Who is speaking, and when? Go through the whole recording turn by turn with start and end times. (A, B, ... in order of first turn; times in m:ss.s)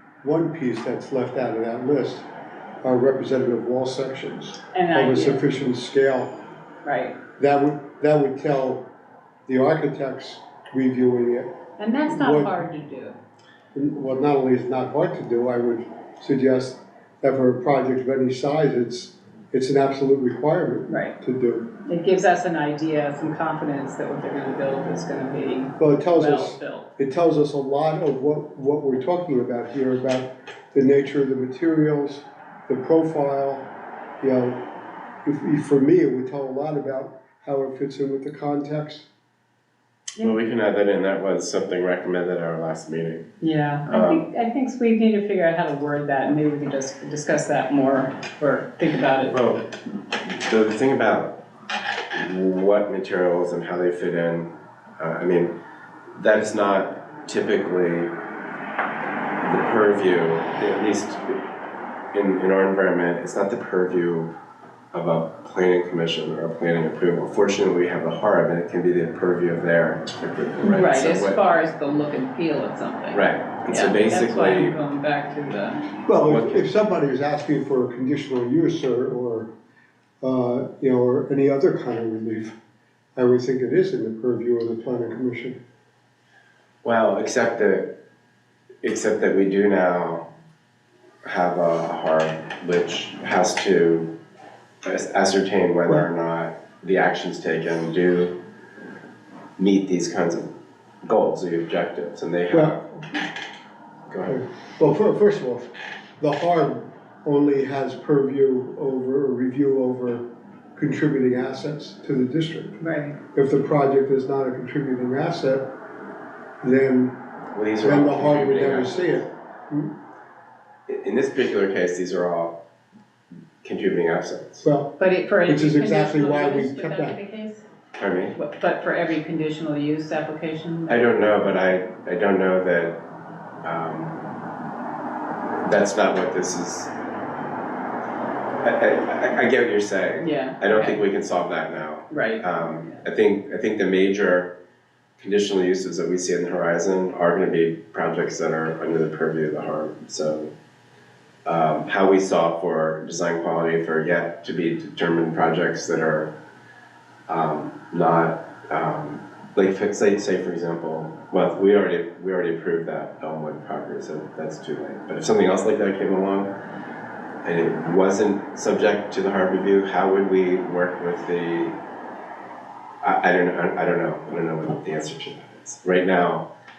0:00.2-0:02.2 A
0:02.8-0:06.3 A
0:04.7-0:05.4 B
0:06.8-0:07.2 B
0:07.4-0:08.8 A
0:09.5-0:11.5 A
0:11.8-0:13.2 B
0:12.1-0:12.6 A
0:13.7-0:21.7 A
0:20.9-0:21.1 B
0:21.8-0:26.8 B
0:25.8-0:33.6 A
0:34.2-0:34.6 A
0:35.2-0:39.1 A
0:40.2-0:43.3 C
0:43.4-0:49.4 B
0:43.9-0:44.2 C
0:49.3-0:49.6 C
0:50.2-0:51.3 C
0:52.1-0:55.5 C
0:56.1-0:58.1 C
0:59.4-1:01.4 C
1:02.1-1:04.3 C
1:04.9-1:11.4 C
1:10.6-1:15.8 B
1:13.1-1:14.7 C
1:16.0-1:19.5 A
1:16.2-1:16.6 C
1:20.2-1:22.6 A
1:23.2-1:25.6 A
1:26.8-1:27.9 C
1:28.8-1:30.2 C
1:31.2-1:34.1 C
1:34.8-1:38.4 C
1:39.6-1:40.5 C
1:41.0-1:42.8 C
1:42.5-1:43.0 A
1:44.1-1:44.4 C
1:44.2-1:50.2 A
1:50.8-1:52.8 A
1:52.8-1:53.2 B
1:53.3-1:55.6 A
1:56.6-1:57.2 A
1:57.5-1:59.3 C
1:57.8-1:59.9 A
2:00.9-2:02.5 C
2:03.6-2:04.6 C
2:04.6-2:04.9 A
2:05.0-2:07.6 B
2:05.4-2:07.2 A
2:08.0-2:08.4 C
2:08.4-2:11.0 B
2:10.9-2:13.0 C
2:13.6-2:14.2 C
2:15.6-2:16.9 C
2:18.6-2:24.5 C
2:20.2-2:21.0 B
2:22.1-2:22.4 B
2:25.2-2:30.5 C
2:31.4-2:36.3 C
2:37.3-2:46.5 C
2:47.4-2:51.7 C
2:53.0-2:56.4 C